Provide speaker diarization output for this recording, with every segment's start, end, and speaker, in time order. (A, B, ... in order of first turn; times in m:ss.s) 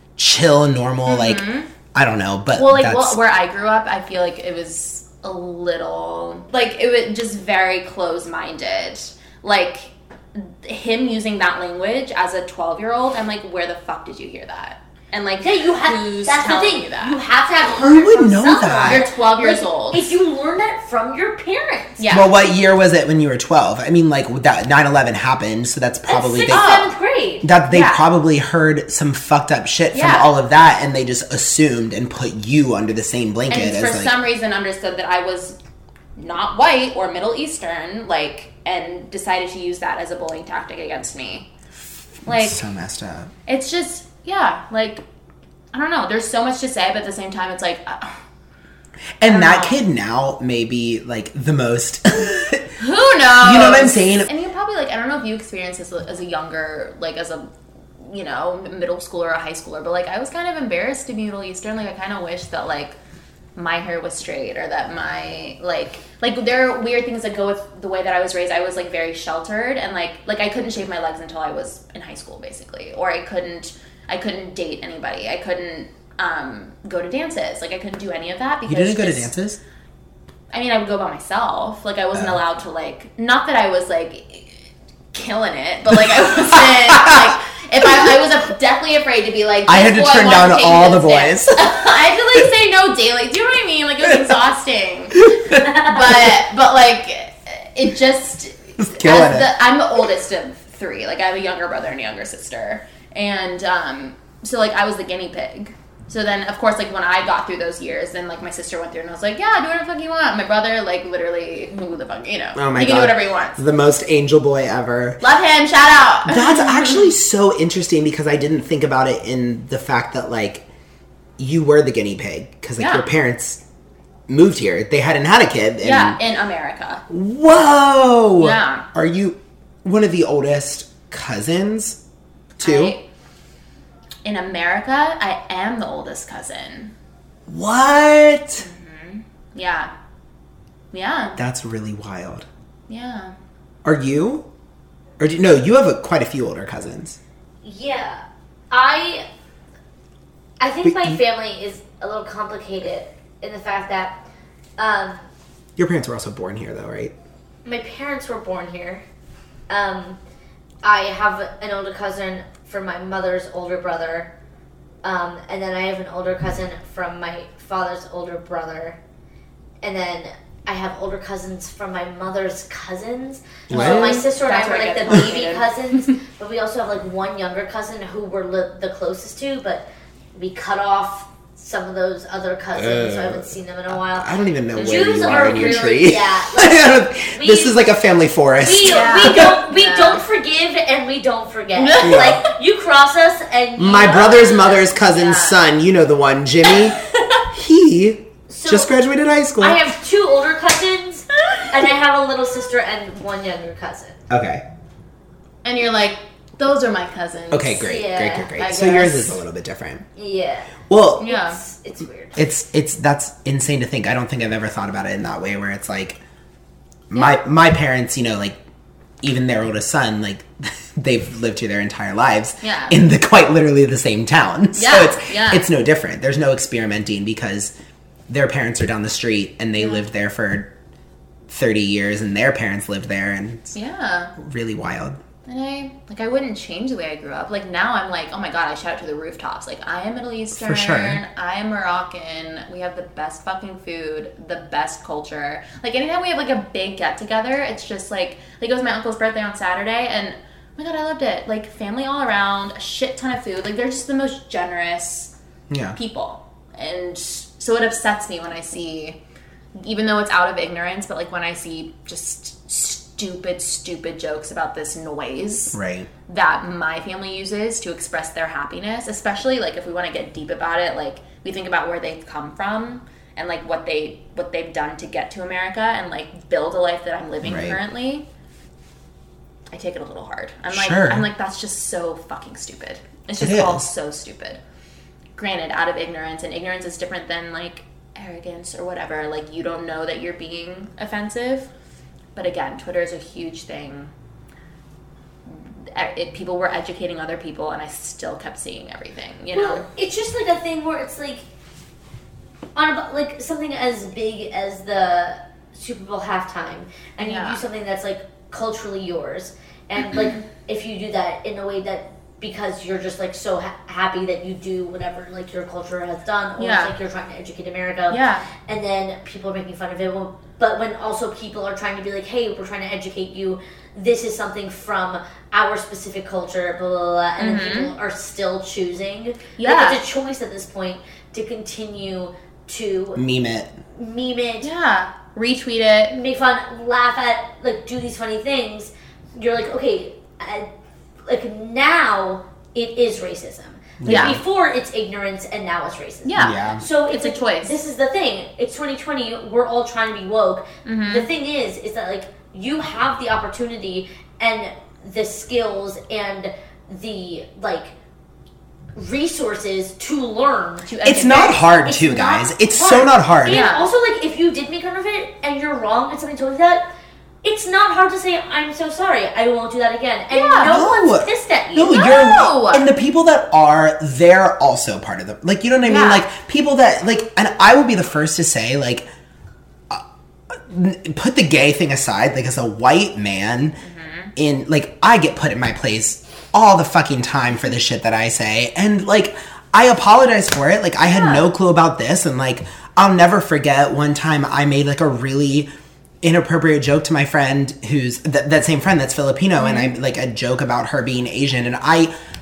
0:00.2-0:01.4 A
0:01.1-0:01.7 B
0:01.9-0:03.2 A
0:02.6-0:17.2 B
0:15.4-0:22.1 C
0:17.6-0:19.0 A
0:18.8-0:20.2 B
0:22.0-0:22.4 B
0:22.1-0:26.8 A
0:26.1-0:27.5 C
0:26.5-0:27.0 B
0:27.4-0:34.1 A
0:27.7-0:28.0 B
0:29.9-0:30.3 B
0:33.5-0:35.6 B
0:36.2-0:41.5 B
0:42.2-0:43.3 A
0:42.3-0:42.6 B
0:43.5-0:45.0 B
0:45.7-0:48.2 B
0:49.2-0:52.7 A
0:49.2-0:49.8 B
0:52.8-0:57.5 B
0:53.4-0:54.3 A
0:58.0-1:03.0 B
1:03.6-1:19.3 B
1:18.7-1:19.6 A
1:20.5-1:53.6 B
1:22.1-1:22.4 A
1:26.5-1:27.3 A
1:29.7-1:32.4 A
1:35.2-1:36.3 A
1:38.8-1:39.5 A
1:52.6-1:55.2 A
1:55.2-1:57.1 B
1:56.3-2:00.7 A
2:01.4-2:03.6 A
2:02.8-2:03.1 B
2:04.3-2:06.2 A
2:05.8-2:07.0 B
2:07.1-2:12.0 A
2:08.4-2:08.9 B
2:12.6-2:13.0 A
2:12.6-2:13.1 B
2:14.2-2:16.9 B
2:17.5-2:18.6 A
2:18.6-2:19.9 B
2:20.9-2:21.4 B
2:21.4-2:22.5 A
2:22.9-2:23.3 B
2:23.8-2:24.5 A
2:25.2-2:27.2 A
2:27.6-2:29.3 C
2:30.6-2:34.2 C
2:30.8-2:31.2 A
2:34.8-2:35.2 C
2:35.8-2:37.1 A
2:37.6-2:39.0 C
2:39.7-2:40.2 C
2:40.8-2:44.3 C
2:45.0-2:49.0 C
2:49.8-3:08.0 C
2:53.7-2:54.2 A
2:53.7-2:56.2 B
3:02.8-3:09.5 A
3:04.8-3:06.0 B
3:08.6-3:14.8 C
3:08.8-3:10.2 B
3:11.8-3:12.5 B
3:12.0-3:12.4 A
3:13.8-3:17.0 A
3:14.2-3:15.6 B
3:17.5-3:19.8 A
3:18.5-3:19.0 C
3:19.6-3:24.2 C
3:24.3-3:24.6 A
3:25.6-3:27.9 B
3:27.5-3:30.0 A
3:27.8-3:29.3 C
3:28.5-3:29.3 B
3:30.2-3:32.4 C
3:30.9-3:31.2 A
3:31.2-3:31.6 B
3:32.4-3:36.2 A
3:37.1-3:38.6 A
3:39.2-3:47.7 A
3:42.6-3:43.0 B
3:44.7-3:45.7 B
3:48.3-3:50.7 A
3:49.8-3:50.0 B
3:51.5-3:53.7 A
3:53.7-3:54.3 B
3:54.4-3:55.2 A
3:55.5-4:15.3 B
4:00.6-4:01.2 A
4:15.7-4:16.0 A
4:15.9-4:19.2 B
4:19.8-4:38.3 B
4:25.7-4:26.1 A
4:37.4-4:37.8 A
4:39.7-4:44.6 B
4:40.7-4:41.3 A
4:43.4-4:43.9 A
4:45.4-4:51.7 B
4:52.4-4:54.1 B
4:55.5-4:59.9 B
4:59.5-5:01.4 C
5:02.8-5:33.2 C
5:07.2-5:07.6 B
5:16.6-5:16.9 B
5:18.1-5:18.4 B
5:27.4-5:27.9 B
5:29.6-5:30.0 B
5:33.2-5:33.7 A
5:33.9-5:34.7 C
5:34.6-5:36.2 B
5:36.1-5:40.7 C
5:41.3-5:57.9 C
5:44.0-5:44.4 A
5:44.0-5:44.4 B
5:46.2-5:47.8 B
5:46.4-5:46.8 A
5:50.8-5:51.3 B
5:59.0-6:06.9 C
6:00.9-6:01.6 B
6:01.0-6:03.6 A
6:03.5-6:03.9 B
6:07.4-6:12.2 C
6:10.3-6:10.8 B
6:10.7-6:19.0 A
6:11.9-6:12.9 B
6:15.8-6:16.3 B
6:19.9-6:23.8 A
6:23.8-6:24.3 B
6:24.4-6:35.7 A
6:31.0-6:31.4 B
6:36.2-6:42.1 A
6:39.6-6:39.9 B